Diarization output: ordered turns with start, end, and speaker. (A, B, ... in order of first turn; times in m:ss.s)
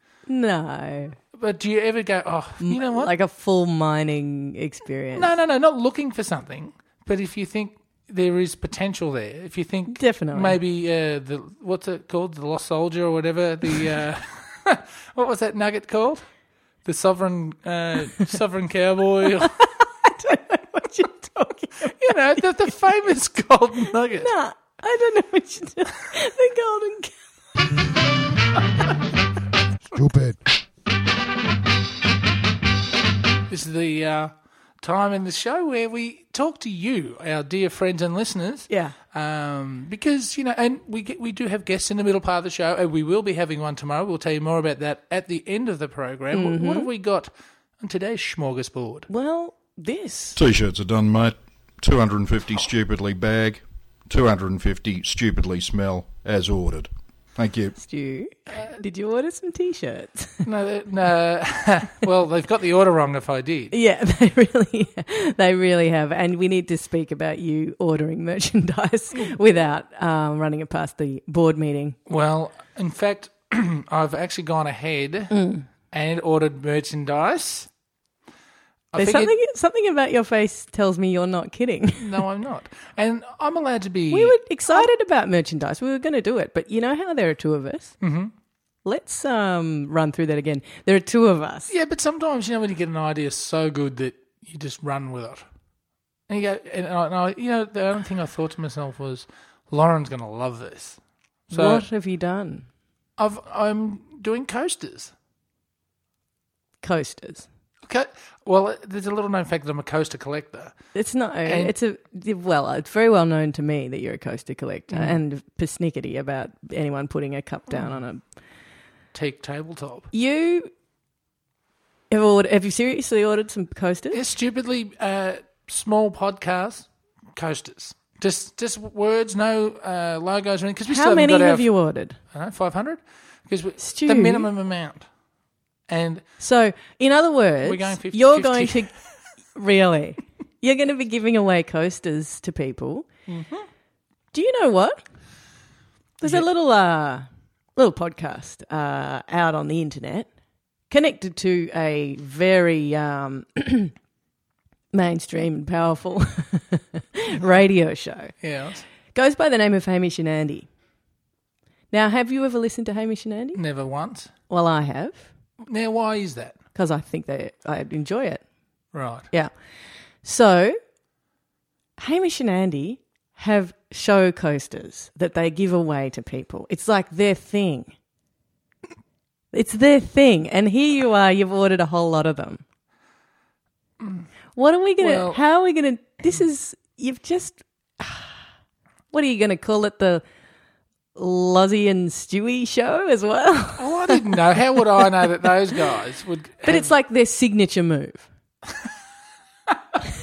0:00.3-0:01.2 A
0:01.3-0:03.1 B
0:02.6-0:05.3 A
0:05.2-0:16.3 B
0:09.9-0:10.6 A
0:16.8-0:19.5 B
0:19.4-0:22.4 A
0:21.9-0:24.3 B
0:24.2-0:27.1 A
0:29.9-0:30.4 C
0:33.5-0:49.1 B
0:38.7-0:38.9 A
0:46.3-0:46.9 A
0:49.1-0:50.4 A
0:50.4-0:57.8 C
0:57.8-1:00.4 A
1:00.4-1:03.7 B
1:03.7-1:12.0 A
1:12.1-1:15.3 B
1:15.3-1:15.7 A
1:15.9-1:17.7 B
1:18.9-1:19.3 B
1:19.0-1:22.2 A
1:22.0-1:24.9 B
1:24.1-1:28.0 A
1:28.0-1:28.3 B
1:28.8-1:31.7 A
1:31.7-1:35.4 B
1:36.3-1:41.0 B
1:41.5-1:41.9 B
1:41.5-1:42.6 A
1:43.2-1:45.1 B
1:46.8-1:47.5 A
1:47.8-1:50.8 B
1:50.9-1:58.2 A
1:51.4-1:51.7 B
1:54.9-1:55.2 B
1:59.1-2:00.1 B
2:00.1-2:00.7 A
2:02.1-2:04.2 A
2:04.1-2:11.7 B
2:10.9-2:12.2 A
2:12.3-2:15.1 B
2:13.8-2:14.5 A
2:15.9-2:16.3 B
2:16.4-2:18.9 A
2:17.6-2:18.9 B
2:19.6-2:23.1 A
2:23.3-2:23.7 B
2:24.3-2:25.0 A
2:26.2-2:27.2 A
2:27.8-2:30.3 A
2:30.9-2:33.9 A
2:34.9-2:38.4 A
2:38.4-2:38.8 B
2:39.1-2:40.7 A
2:41.9-2:43.6 A
2:43.6-2:44.3 B
2:44.5-2:45.3 A
2:45.6-2:46.6 B
2:46.8-2:48.4 A
2:48.9-2:49.3 B
2:50.2-2:50.8 A
2:52.0-2:57.9 A
2:59.5-3:02.6 A
3:04.0-3:04.3 B
3:04.6-3:08.4 A
3:05.0-3:05.4 B
3:09.1-3:10.2 A
3:11.2-3:14.4 A
3:13.8-3:16.9 B
3:16.6-3:18.3 A